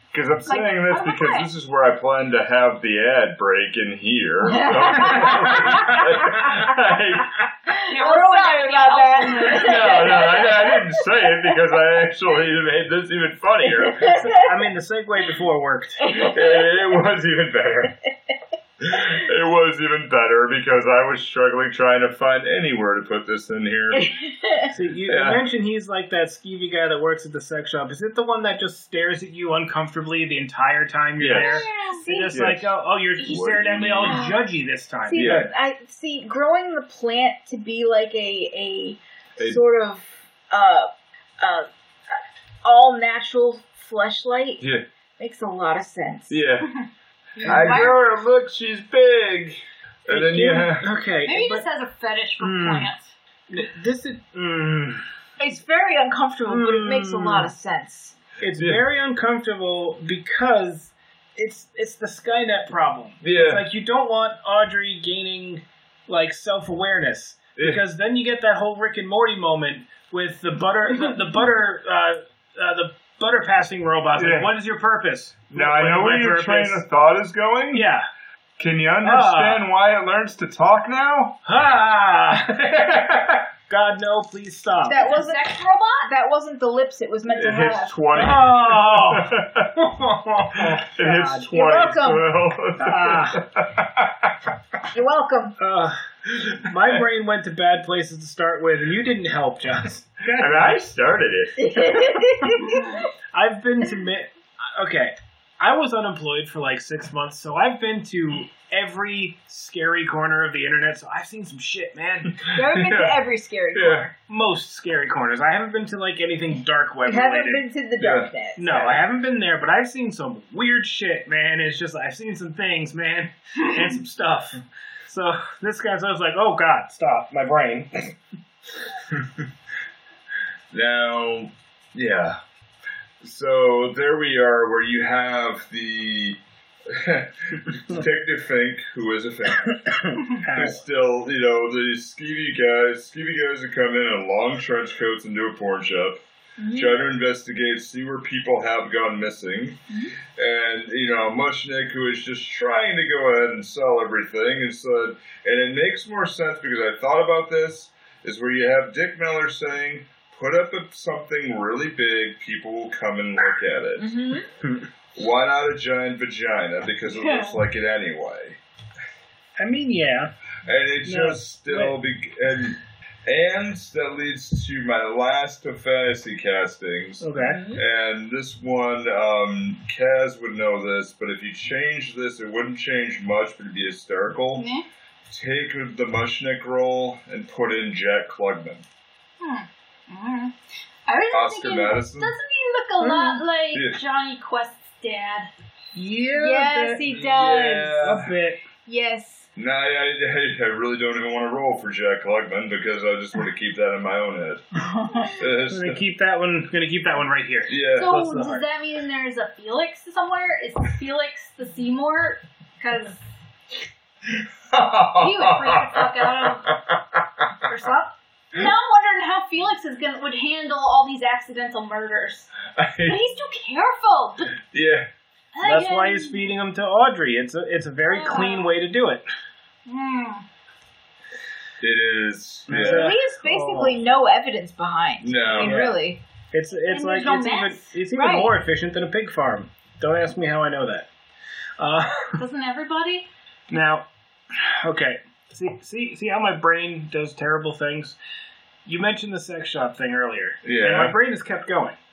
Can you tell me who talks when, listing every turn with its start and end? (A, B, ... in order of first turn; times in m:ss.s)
0:00.1-0:07.4 A
0:00.4-0:01.5 B
0:04.4-0:06.6 C
0:05.1-0:05.8 D
0:07.7-0:11.6 C
0:07.8-0:10.5 B
0:09.6-0:14.2 A
0:13.8-0:14.5 C
0:14.3-0:16.1 D
0:16.0-0:17.0 C
0:16.1-0:17.9 A
0:18.8-0:24.0 A
0:23.9-0:24.7 C
0:24.7-0:35.5 D
0:25.0-0:25.4 A
0:31.2-0:31.6 A
0:31.3-0:32.4 C
0:31.4-0:32.0 B
0:32.3-0:32.7 A
0:33.2-0:34.3 A
0:34.0-0:34.4 C
0:35.1-0:44.6 C
0:35.2-0:35.4 A
0:45.2-0:46.4 C
0:46.3-0:46.7 A
0:47.4-0:47.9 D
0:47.4-0:47.9 B
0:47.4-0:50.9 A
0:50.1-0:51.6 D
0:51.2-0:53.0 B
0:52.4-0:52.9 D
0:53.5-0:55.0 D
0:55.4-0:58.2 C
0:56.4-0:57.5 D
0:58.4-1:16.8 D
0:58.5-0:58.8 A
1:03.2-1:03.6 A
1:14.2-1:14.5 A
1:15.5-1:17.9 A
1:17.7-1:18.0 D
1:18.6-1:21.4 A
1:19.0-1:19.6 D
1:21.4-1:23.1 D
1:22.6-1:23.4 A
1:23.7-1:25.0 D
1:24.8-1:27.9 C
1:24.9-1:26.1 B
1:27.3-1:29.8 A
1:28.2-1:31.5 D
1:30.5-1:34.5 A
1:31.5-1:32.2 C
1:32.8-1:33.4 D
1:34.9-1:35.6 C
1:35.6-1:36.0 D
1:36.3-1:37.0 A
1:36.6-1:40.8 D
1:40.3-1:41.5 A
1:41.6-1:43.1 C
1:42.6-1:52.4 D
1:52.5-1:54.1 C
1:52.6-1:53.2 A
1:53.7-1:54.1 A
1:54.3-1:57.6 D
1:57.0-1:58.6 C
1:58.0-1:59.0 A
1:58.6-2:08.2 D
2:09.1-2:09.5 A
2:10.7-2:12.4 A
2:13.2-2:29.8 A
2:19.6-2:20.8 D
2:26.6-2:27.0 C
2:29.9-2:30.2 C
2:30.3-2:44.1 A
2:44.0-2:44.5 C
2:45.2-2:48.6 A
2:49.6-2:50.3 D
2:50.6-3:04.7 A
2:51.0-2:52.0 D
2:57.2-2:57.6 D
2:57.4-2:57.8 C
3:04.6-3:04.8 B
3:05.3-3:08.8 A
3:09.4-3:10.5 B
3:11.0-3:15.5 B
3:11.3-3:12.3 A
3:13.0-3:13.4 D
3:13.7-3:14.0 A
3:15.9-3:17.0 D
3:16.3-3:18.1 C
3:17.1-3:18.3 A
3:18.0-3:18.6 D
3:18.8-3:19.5 C
3:19.6-3:24.6 A
3:24.8-3:25.4 C
3:25.3-3:26.0 A
3:25.7-3:28.6 D
3:27.7-3:28.2 A
3:27.9-3:33.2 B
3:34.3-3:37.7 A
3:35.2-3:36.7 B
3:37.6-3:42.5 B
3:42.8-3:43.3 A
3:43.0-3:44.6 B
3:44.7-3:45.1 A
3:45.5-3:46.4 B
3:45.6-3:49.2 D
3:48.1-3:48.7 B
3:49.8-3:50.4 B
3:51.8-3:53.2 A
3:52.7-3:54.1 D
3:52.8-3:56.2 C
3:55.2-3:55.7 A
3:55.6-4:01.1 D
3:56.9-3:58.5 B
4:01.8-4:02.4 D
4:02.4-4:03.3 B
4:03.7-4:08.2 D
4:08.8-4:12.0 D
4:10.6-4:11.2 A